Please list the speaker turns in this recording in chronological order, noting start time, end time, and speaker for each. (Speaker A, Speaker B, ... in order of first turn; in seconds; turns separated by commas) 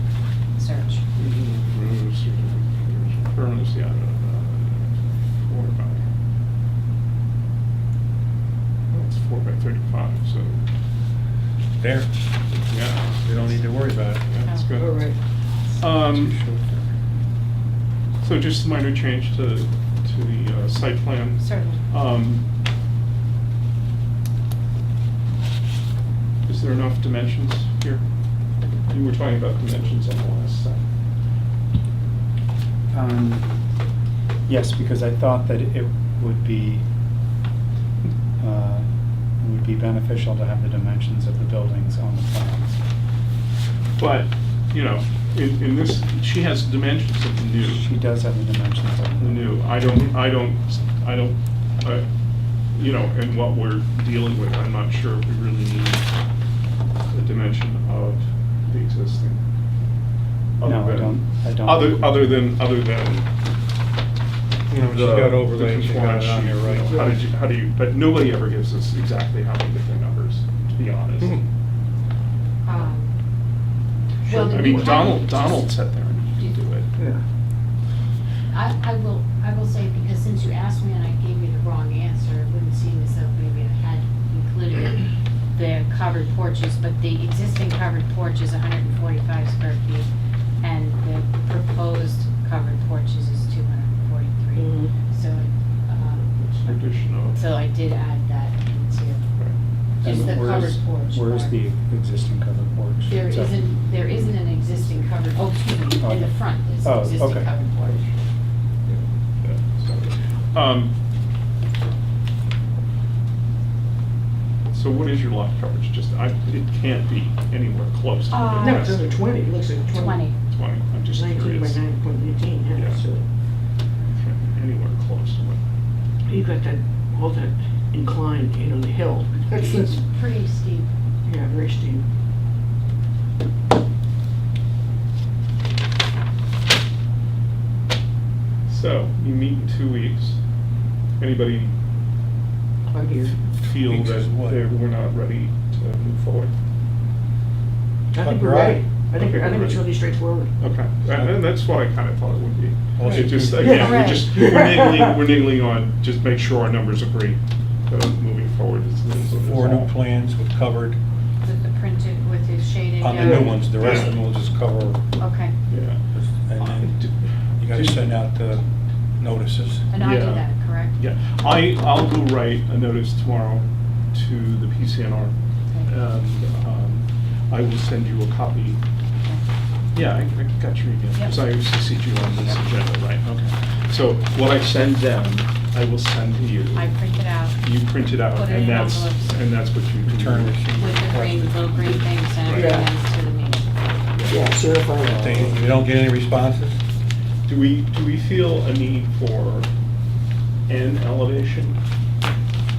Speaker A: 0.6-1.0, Speaker B: 1.2-6.0, Speaker B: 9.0-10.6, Speaker C: 11.8-12.1, Speaker B: 12.7-13.5, Speaker C: 13.2-14.2, Speaker B: 14.3-15.1, Speaker D: 14.8-15.2, Speaker E: 15.8-16.9, Speaker B: 15.8-16.4, Speaker B: 18.2-22.4, Speaker A: 21.4-21.8, Speaker B: 26.5-28.0, Speaker B: 28.9-30.8, Speaker E: 32.9-33.5, Speaker E: 34.5-36.8, Speaker E: 38.4-38.9, Speaker E: 39.4-42.8, Speaker B: 44.0-47.9, Speaker E: 47.6-49.6, Speaker B: 49.2-52.1, Speaker B: 52.7-56.1, Speaker B: 57.1-59.4, Speaker B: 60.6-63.3, Speaker E: 60.6-62.5, Speaker C: 64.7-67.2, Speaker B: 64.8-71.4, Speaker A: 72.6-73.1, Speaker D: 74.2-75.1, Speaker A: 74.3-75.8, Speaker B: 74.4-76.9, Speaker A: 78.5-90.1, Speaker A: 90.6-96.3, Speaker D: 94.6-94.9, Speaker D: 96.2-96.7, Speaker B: 96.6-97.4, Speaker A: 97.3-99.2, Speaker B: 99.4-100.8, Speaker E: 100.0-103.6, Speaker A: 100.0-101.6, Speaker A: 103.1-108.2, Speaker E: 106.0-107.5, Speaker B: 108.9-111.0, Speaker B: 114.7-119.2, Speaker A: 118.3-119.0, Speaker D: 118.6-120.3, Speaker A: 119.9-120.4, Speaker B: 120.5-121.8, Speaker D: 121.1-123.2, Speaker B: 122.7-123.0, Speaker B: 124.1-125.6, Speaker D: 126.3-130.0, Speaker A: 129.5-130.9, Speaker D: 131.2-132.0, Speaker B: 138.7-140.4, Speaker B: 141.2-141.7, Speaker D: 142.9-143.4, Speaker B: 143.2-146.5, Speaker C: 143.7-144.6, Speaker D: 148.1-150.5, Speaker C: 148.1-148.9, Speaker B: 149.1-149.9, Speaker B: 150.6-160.0, Speaker C: 153.0-153.8, Speaker D: 153.0-155.1, Speaker A: 153.7-154.3, Speaker C: 159.3-161.0, Speaker A: 161.4-163.6, Speaker C: 163.0-165.0, Speaker B: 163.5-164.2, Speaker A: 165.2-165.5, Speaker B: 165.7-166.0, Speaker C: 166.1-167.0, Speaker B: 166.6-168.0, Speaker C: 167.6-168.7, Speaker C: 169.2-169.9, Speaker A: 169.9-171.0, Speaker B: 169.9-178.8, Speaker B: 179.9-186.9, Speaker A: 181.2-181.4, Speaker A: 186.8-187.6, Speaker B: 187.6-190.6, Speaker A: 188.3-189.4, Speaker C: 190.0-192.1, Speaker A: 190.8-193.7, Speaker B: 192.4-192.9, Speaker D: 192.5-192.9, Speaker B: 194.1-194.4, Speaker D: 194.3-195.5, Speaker C: 195.0-196.8, Speaker B: 197.5-199.7, Speaker B: 200.7-201.8